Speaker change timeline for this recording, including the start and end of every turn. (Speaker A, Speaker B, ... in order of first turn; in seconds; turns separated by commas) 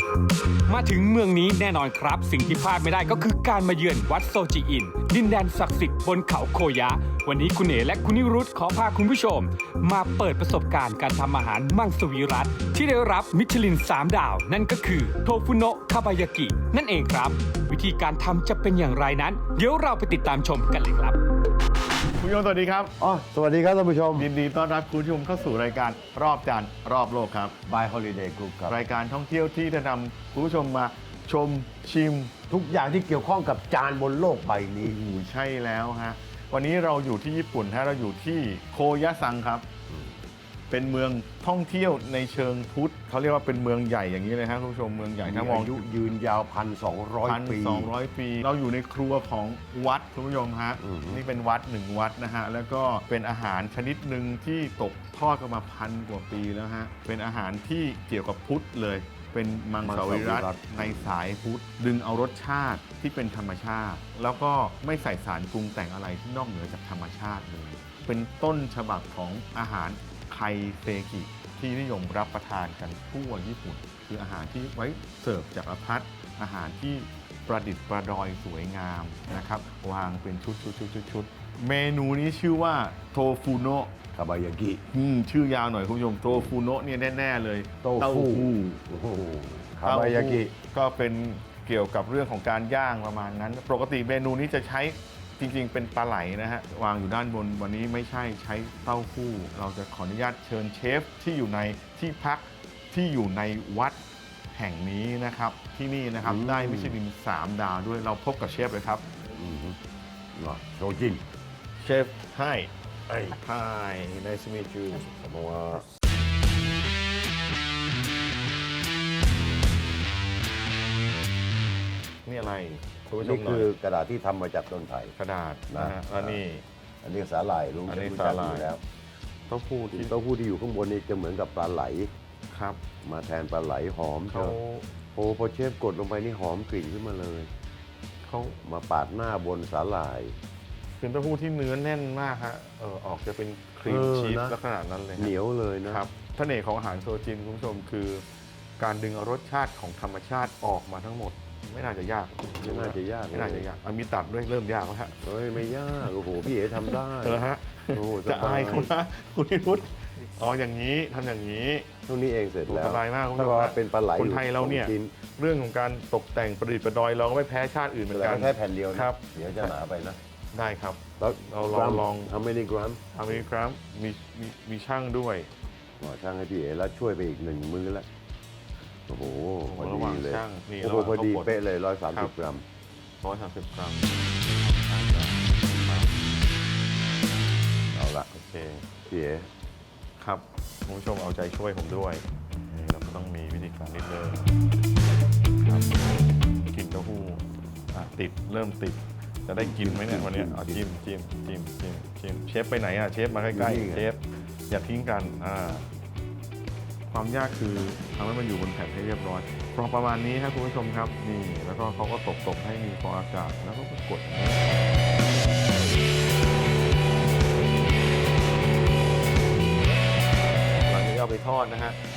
Speaker A: 0.7-21.2, Speaker B: 22.1-22.9, Speaker C: 23.0-24.3, Speaker B: 24.1-27.6, Speaker C: 27.7-28.8, Speaker B: 28.7-32.3, Speaker C: 32.5-35.2, Speaker B: 34.9-39.7, Speaker B: 40.7-45.9, Speaker C: 45.2-47.9, Speaker B: 47.2-83.9, Speaker C: 50.8-51.2, Speaker C: 59.8-61.2, Speaker C: 84.1-84.8, Speaker B: 84.9-88.8, Speaker C: 87.8-90.5, Speaker B: 89.8-104.0, Speaker B: 104.5-109.1, Speaker C: 106.2-107.0, Speaker C: 109.3-109.8, Speaker C: 110.4-111.2, Speaker B: 111.8-115.8, Speaker B: 122.2-123.7, Speaker C: 123.2-125.1, Speaker B: 125.2-126.7, Speaker C: 125.7-126.4, Speaker C: 127.0-128.8, Speaker B: 127.9-128.7, Speaker B: 129.5-130.2, Speaker C: 129.9-132.1, Speaker B: 132.5-132.8, Speaker C: 133.0-134.6, Speaker B: 134.3-134.9, Speaker C: 135.2-137.5, Speaker B: 138.2-138.6, Speaker C: 138.6-140.4, Speaker B: 140.9-145.3, Speaker C: 143.9-144.6, Speaker C: 145.2-146.1, Speaker B: 145.9-148.3, Speaker B: 148.8-155.2, Speaker C: 152.6-153.7, Speaker C: 155.2-158.9, Speaker B: 156.7-161.9, Speaker C: 162.1-165.1, Speaker B: 162.7-169.7, Speaker C: 168.1-170.2, Speaker B: 170.5-172.3, Speaker C: 171.2-173.4, Speaker B: 173.1-175.5, Speaker C: 176.0-178.1, Speaker C: 179.1-182.7, Speaker B: 179.7-181.6, Speaker B: 183.2-186.3, Speaker C: 187.9-188.3, Speaker B: 188.3-188.9, Speaker C: 189.1-189.5, Speaker B: 190.2-194.6, Speaker B: 195.6-196.1, Speaker B: 196.7-205.9, Speaker C: 199.6-200.8, Speaker C: 203.5-204.1, Speaker B: 207.1-214.9, Speaker B: 220.8-222.0